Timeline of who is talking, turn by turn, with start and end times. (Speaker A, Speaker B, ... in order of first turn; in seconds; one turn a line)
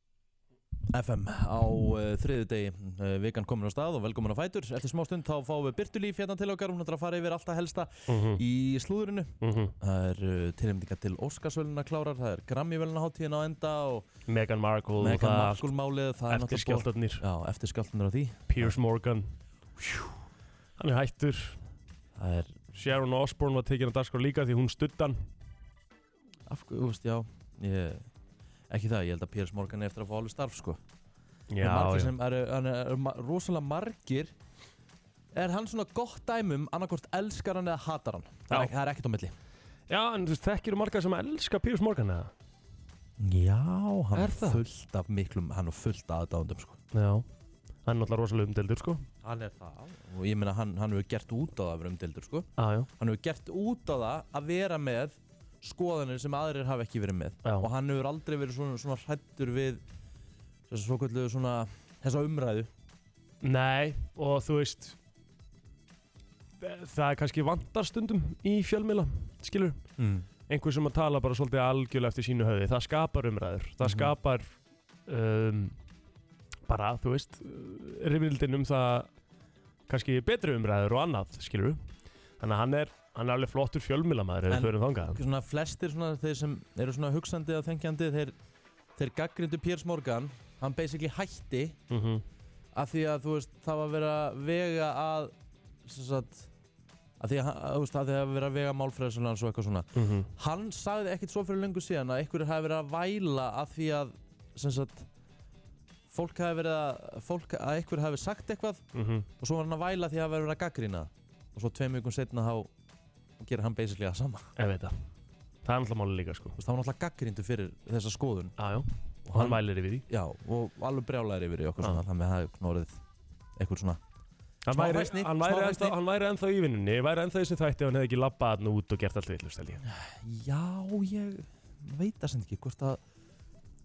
Speaker A: 0.9-14.1
Speaker B: 8.1-8.4
Speaker B: 9.4-9.7
Speaker B: 14.3-15.7
Speaker A: 15.0-18.8
Speaker B: 16.3-17.2
Speaker B: 18.5-19.3
Speaker A: 19.8-20.1
Speaker B: 20.8-21.6
Speaker A: 22.2-22.7
Speaker B: 22.7-25.2
Speaker A: 26.5-28.1
Speaker A: 28.7-30.8
Speaker B: 31.5-32.1
Speaker A: 31.6-34.3
Speaker A: 35.4-39.4
Speaker B: 39.9-42.3
Speaker A: 43.2-46.8
Speaker B: 44.2-44.6
Speaker B: 46.9-47.3
Speaker B: 47.9-49.1
Speaker A: 49.2-59.8
Speaker B: 52.6-52.9
Speaker A: 60.7-62.7
Speaker B: 63.4-65.0
Speaker B: 66.6-69.9
Speaker A: 70.0-70.3
Speaker B: 70.5-74.5
Speaker A: 73.8-74.1
Speaker B: 75.1-75.8
Speaker B: 76.7-79.1
Speaker B: 79.9-81.8
Speaker B: 82.4-85.2
Speaker A: 84.5-88.3
Speaker A: 89.0-91.8
Speaker B: 91.9-92.2
Speaker A: 92.8-95.3
Speaker A: 95.8-96.5
Speaker A: 97.2-105.1
Speaker B: 100.0-100.3
Speaker A: 106.1-108.8
Speaker B: 108.9-109.3
Speaker A: 109.4-112.7
Speaker A: 113.4-114.5
Speaker B: 114.6-115.0
Speaker B: 115.7-116.6
Speaker A: 116.6-118.6
Speaker B: 118.6-120.0
Speaker A: 119.3-123.0
Speaker A: 123.6-124.0
Speaker B: 124.7-129.8
Speaker A: 124.7-126.0
Speaker A: 129.8-133.0